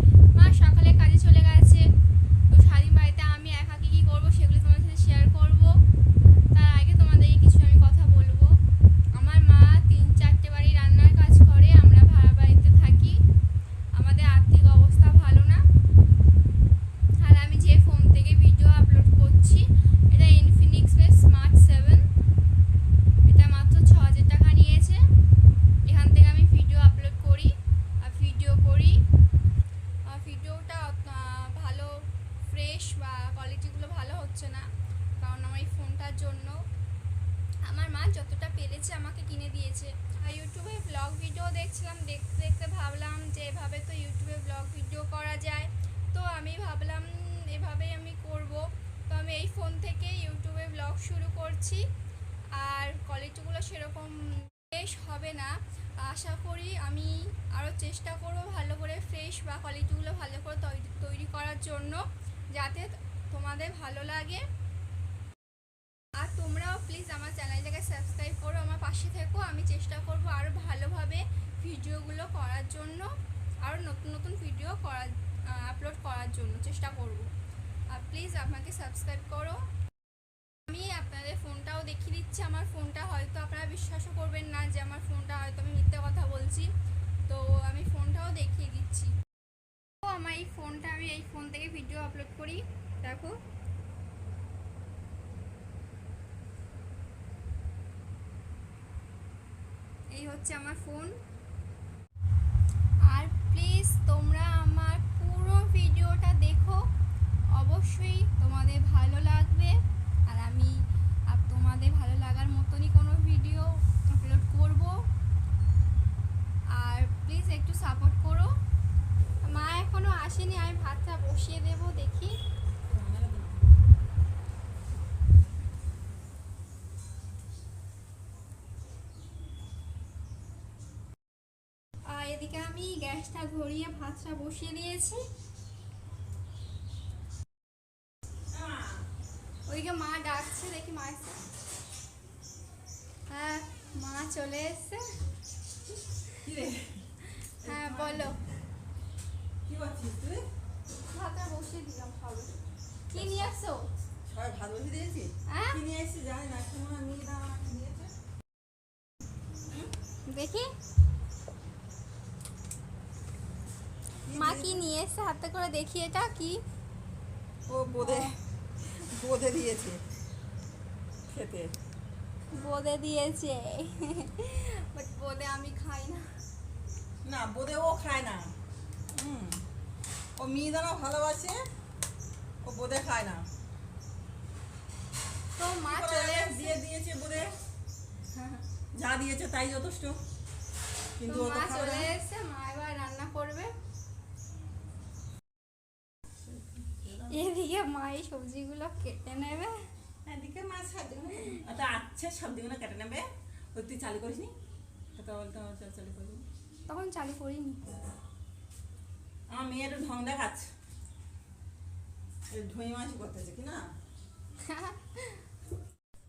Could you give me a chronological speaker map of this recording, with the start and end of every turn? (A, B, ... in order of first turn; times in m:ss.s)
0:00.3-0:01.8 A
0:02.5-0:05.7 A
0:06.5-0:08.5 A
0:09.1-0:13.2 A
0:14.0-0:15.6 A
0:17.2-0:22.1 A
0:23.3-0:25.0 A
0:25.9-0:29.0 A
0:30.1-0:31.9 A
0:32.4-0:34.7 A
0:35.2-0:36.5 A
0:37.6-0:51.8 A
0:52.6-1:02.0 A
1:02.5-1:04.4 A
1:06.2-1:13.0 A
1:13.6-1:17.3 A
1:17.9-1:19.6 A
1:20.7-1:26.7 A
1:27.3-1:29.1 A
1:30.0-1:33.4 A
1:40.1-1:41.1 A
1:43.1-1:46.8 A
1:47.6-1:55.0 A
1:56.8-1:58.5 A
1:59.4-2:02.3 A
2:02.9-2:03.7 B
2:12.1-2:15.2 A
2:18.5-2:19.0 B
2:19.7-2:21.4 A
2:23.3-2:25.0 A
2:26.4-2:26.9 B
2:27.6-2:28.4 B
2:27.6-2:28.4 A
2:29.6-2:30.4 B
2:31.1-2:32.6 A
2:33.1-2:33.9 A
2:33.1-2:33.5 B
2:34.3-2:38.1 B
2:35.5-2:35.8 A
2:40.2-2:40.7 A
2:44.2-2:44.8 B
2:44.3-2:46.6 A
2:47.7-2:50.0 B
2:48.0-2:48.3 A
2:51.3-2:51.7 B
2:52.5-2:56.2 A
2:57.2-2:58.5 B
2:59.1-2:59.6 B
3:00.4-3:01.6 B
3:02.6-3:03.4 B
3:05.6-3:06.8 A
3:05.9-3:07.5 B
3:08.9-3:10.2 B
3:11.2-3:12.1 B
3:11.2-3:13.7 A
3:16.4-3:17.5 B
3:17.3-3:19.7 A
3:20.2-3:24.5 B
3:25.2-3:26.4 B
3:26.9-3:27.8 A
3:29.5-3:30.7 B
3:32.5-3:33.8 B
3:34.6-3:35.4 A